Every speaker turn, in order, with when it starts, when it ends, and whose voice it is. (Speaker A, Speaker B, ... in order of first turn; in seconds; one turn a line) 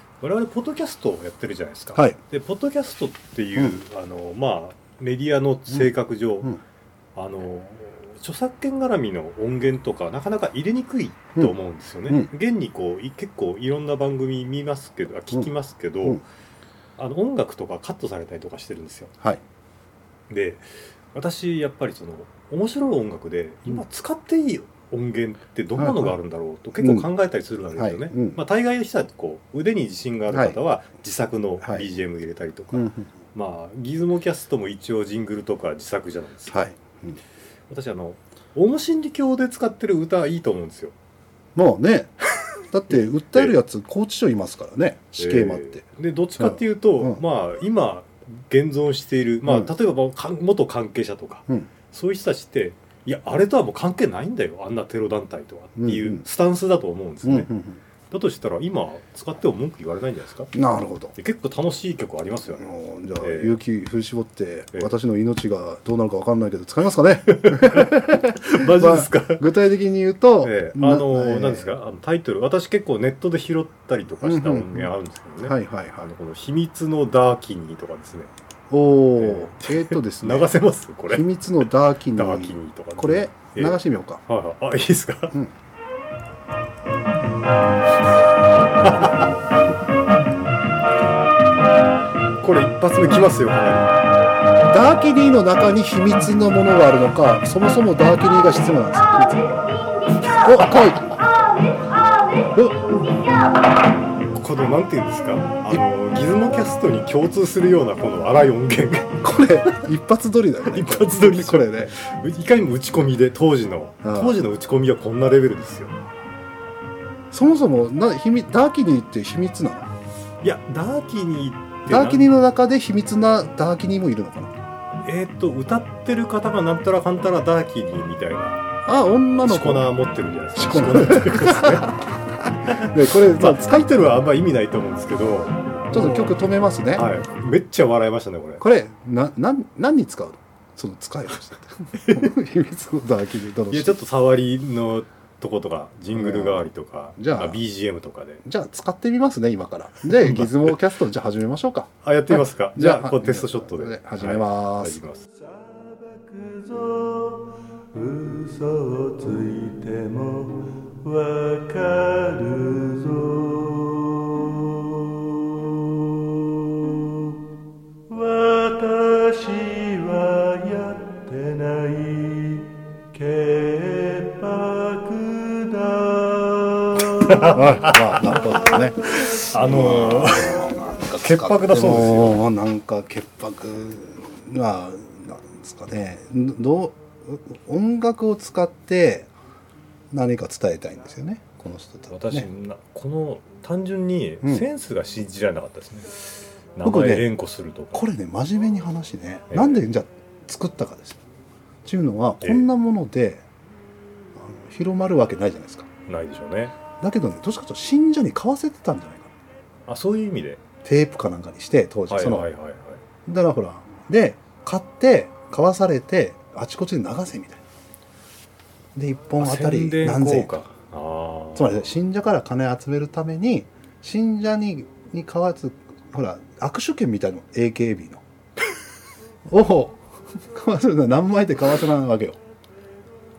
Speaker A: 0.2-6.6
Speaker A: 7.1-16.2
Speaker A: 17.0-19.1
Speaker A: 20.3-36.7
Speaker B: 25.8-26.2
Speaker B: 26.8-27.1
Speaker B: 27.7-28.4
Speaker B: 30.3-30.6
Speaker B: 31.6-31.9
Speaker B: 32.7-33.1
Speaker B: 36.5-37.2
Speaker A: 37.7-40.9
Speaker B: 41.5-42.1
Speaker B: 42.7-45.8
Speaker A: 45.1-57.5
Speaker B: 46.4-47.2
Speaker B: 55.8-56.2
Speaker B: 57.2-57.8
Speaker A: 58.1-60.5
Speaker B: 60.5-61.1
Speaker A: 61.1-63.5
Speaker B: 62.5-71.7
Speaker A: 67.3-69.5
Speaker A: 70.4-78.3
Speaker B: 74.2-74.9
Speaker B: 75.4-76.1
Speaker B: 78.7-84.2
Speaker A: 79.2-85.4
Speaker A: 88.8-89.3
Speaker B: 88.9-89.2
Speaker A: 92.4-93.9
Speaker B: 94.7-99.6
Speaker B: 100.4-101.1
Speaker B: 102.5-103.0
Speaker A: 104.3-109.1
Speaker B: 109.2-111.9
Speaker A: 110.7-115.9
Speaker B: 114.0-114.4
Speaker B: 117.3-119.9
Speaker A: 120.4-122.3
Speaker B: 121.9-124.5
Speaker A: 125.0-128.7
Speaker B: 128.8-129.9
Speaker A: 129.4-131.9
Speaker B: 130.6-134.0
Speaker A: 132.7-136.3
Speaker B: 135.9-137.1
Speaker A: 136.9-138.6
Speaker B: 138.6-144.0
Speaker A: 141.9-142.3
Speaker A: 143.7-148.4
Speaker B: 146.1-147.6
Speaker B: 148.4-155.0
Speaker A: 150.1-150.7
Speaker A: 152.0-155.2
Speaker C: 155.3-167.4
Speaker C: 168.1-179.2
Speaker A: 177.2-178.2
Speaker B: 177.5-189.3
Speaker A: 179.1-182.4
Speaker B: 190.1-192.5
Speaker A: 192.1-198.0
Speaker B: 196.8-197.3
Speaker B: 197.9-201.2
Speaker A: 199.5-199.8
Speaker B: 201.8-203.4
Speaker A: 202.4-202.7
Speaker B: 204.3-205.9
Speaker A: 206.1-206.7
Speaker B: 207.0-209.3
Speaker A: 209.9-210.6
Speaker B: 210.8-212.5
Speaker A: 212.1-213.0
Speaker B: 213.2-217.6
Speaker B: 218.9-220.5
Speaker A: 219.4-221.9
Speaker B: 221.5-228.2
Speaker B: 229.5-232.4